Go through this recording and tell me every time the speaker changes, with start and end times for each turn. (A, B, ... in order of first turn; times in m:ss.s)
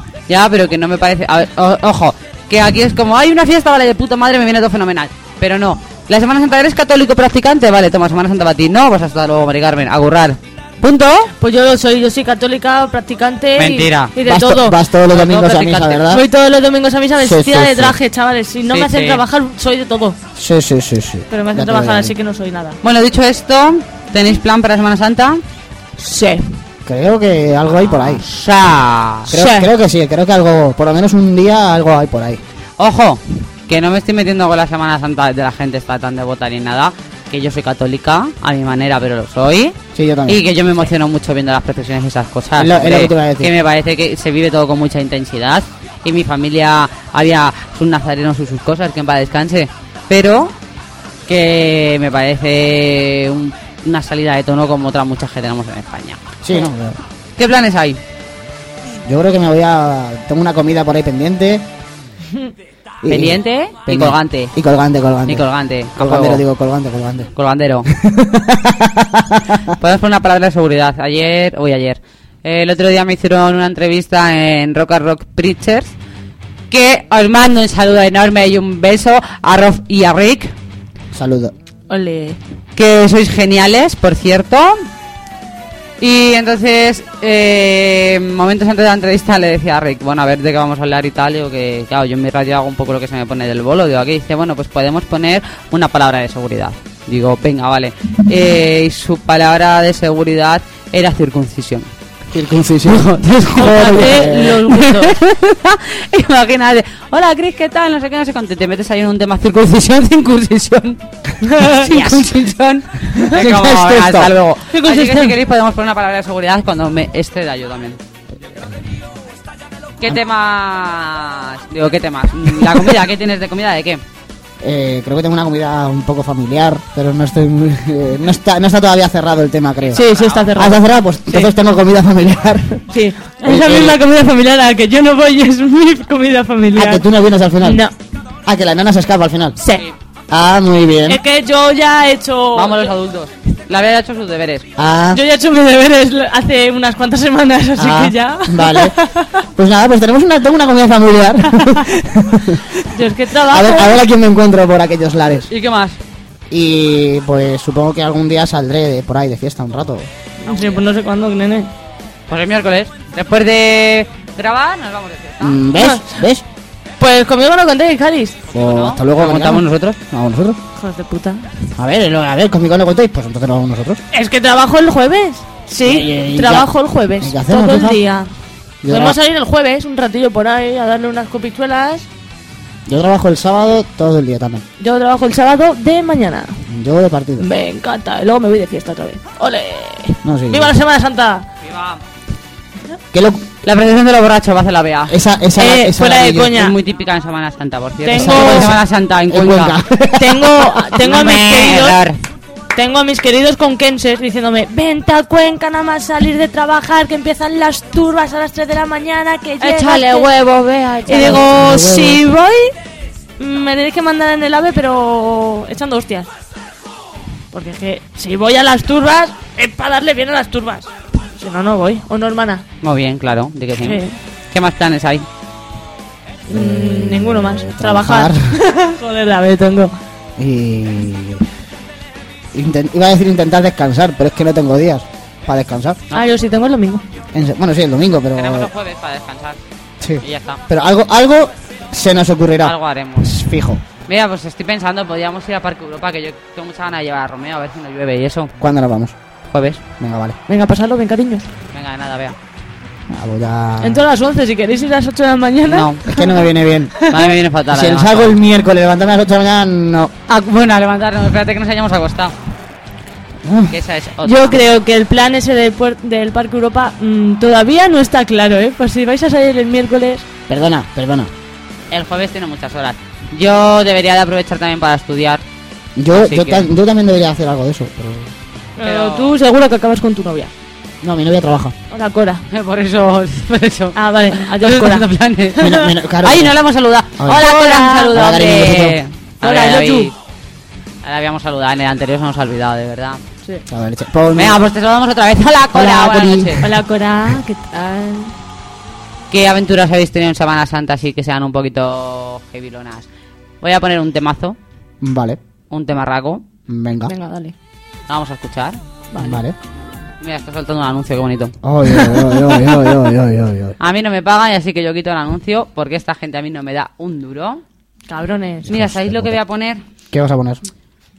0:00.3-0:11.3 A
0:11.4-0:14.8 B
0:13.6-0:14.1 A
0:14.2-0:16.2 C
0:15.1-0:16.0 A
0:16.1-0:20.2 B
0:17.2-0:18.0 C
0:18.7-0:19.2 A
0:20.4-0:22.2 C
0:21.3-0:22.8 B
0:22.8-0:25.4 A
0:26.0-0:26.6 B
0:26.8-0:28.2 C
0:27.7-0:29.3 A
0:29.3-0:32.4 C
0:29.3-0:29.7 B
0:32.8-0:39.8 A
0:39.9-0:40.4 C
0:40.3-0:50.6 A
0:42.6-0:43.5 C
0:51.3-0:56.2 A
0:56.4-0:57.0 C
0:57.4-0:58.0 A
0:59.0-1:01.7 C
1:03.0-1:07.3 C
1:03.1-1:04.5 A
1:05.3-1:06.4 A
1:07.4-1:07.9 A
1:07.9-1:09.7 C
1:09.8-1:15.9 A
1:16.7-1:20.5 A
1:21.1-1:21.5 C
1:21.9-1:22.4 B
1:22.8-1:24.9 A
1:26.0-1:41.9 A
1:42.3-1:44.8 C
1:42.9-1:51.0 A
1:43.6-1:45.2 B
1:51.5-1:51.9 B
1:51.6-1:58.0 A
1:51.8-1:52.3 C
1:53.1-1:54.3 C
1:54.7-1:55.4 B
2:00.0-2:04.0 A
2:02.6-2:03.0 C
2:04.6-2:12.8 C
2:09.9-2:10.5 A
2:09.9-2:10.8 B
2:12.9-2:17.0 B
2:13.4-2:14.0 C
2:16.8-2:17.8 C
2:17.6-2:17.9 B
2:18.4-2:19.6 C
2:19.6-2:19.8 B
2:20.3-2:21.2 C
2:21.1-2:23.0 B
2:22.6-2:24.7 A
2:24.8-2:25.2 C
2:25.1-2:29.4 B
2:27.8-2:29.0 C
2:29.6-2:32.7 C
2:32.8-2:34.0 B
2:33.4-2:35.5 C
2:35.5-2:36.0 A
2:36.5-2:40.1 C
2:40.4-2:41.7 B
2:42.3-2:45.6 A
2:45.4-2:46.4 C
2:45.8-2:46.1 B
2:47.0-2:48.4 B
2:48.5-2:50.0 A
2:48.5-2:50.6 C
2:50.8-2:51.5 B
2:51.8-2:54.0 C
2:54.1-2:58.3 B
2:55.8-2:56.7 C
2:57.2-2:58.0 C
2:58.8-2:59.2 C
2:58.9-3:02.1 B
3:02.9-3:04.6 C
3:04.8-3:06.6 B
3:06.7-3:07.5 C
3:07.4-3:11.5 B
3:10.2-3:10.7 C
3:11.6-3:12.0 A
3:13.1-3:13.4 C
3:13.6-3:15.2 A
3:15.1-3:16.6 C
3:15.6-3:16.8 B
3:16.5-3:19.8 A
3:18.0-3:18.7 B
3:18.1-3:21.0 C
3:20.2-3:22.0 B
3:21.0-3:22.2 A
3:22.7-3:30.4 B
3:29.6-3:31.4 A
3:31.1-3:32.7 B
3:31.2-3:32.2 C
3:33.4-3:36.3 B
3:37.5-3:42.6 B
3:42.8-3:45.3 A
3:43.8-3:44.2 B
3:46.5-3:49.9 B
3:46.5-3:48.6 C
3:50.4-3:51.4 C
3:52.5-3:56.0 C
3:56.1-3:57.0 B
3:57.3-3:58.7 C
3:58.4-3:59.6 A
4:00.0-4:03.8 C
4:00.2-4:00.6 A
4:02.6-4:03.3 A
4:04.1-4:08.5 A
4:08.6-4:09.2 C
4:09.5-4:09.8 A
4:10.0-4:10.4 C
4:10.5-4:11.5 B
4:11.7-4:12.4 A
4:13.1-4:14.1 C
4:13.8-4:16.3 B
4:15.7-4:16.1 A
4:16.1-4:20.1 C
4:17.1-4:18.4 A
4:20.3-4:22.3 A
4:23.4-4:23.8 C
4:23.7-4:24.6 A
4:24.2-4:30.3 B
4:30.5-4:31.3 C
4:31.9-4:35.4 A
4:36.0-4:38.3 C
4:36.1-4:36.7 A
4:38.8-4:40.5 B
4:38.8-4:39.3 A
4:41.0-4:41.8 C
4:41.9-4:42.4 B
4:42.5-4:45.6 A
4:44.0-4:45.1 B
4:45.6-4:45.9 B
4:45.6-4:46.6 C
4:46.2-4:50.1 A
4:47.2-4:47.4 C
4:47.3-4:48.4 B
4:48.1-4:49.0 C
4:49.4-4:50.1 B
4:51.0-4:53.2 A
4:53.7-4:54.6 C
4:54.4-4:56.6 A
4:55.7-4:56.6 C
4:56.6-4:58.3 B
4:59.3-5:03.1 A
5:03.6-5:04.6 A
5:05.0-5:05.4 C
5:05.7-5:06.4 A
5:06.7-5:07.1 C
5:07.1-5:07.6 B
5:08.1-5:08.8 A
5:09.1-5:09.6 C
5:10.2-5:11.5 A
5:11.6-5:13.8 C
5:13.8-5:17.6 A
5:18.1-5:18.7 B
5:18.7-5:19.4 C
5:18.7-5:19.8 A
5:20.1-5:20.6 C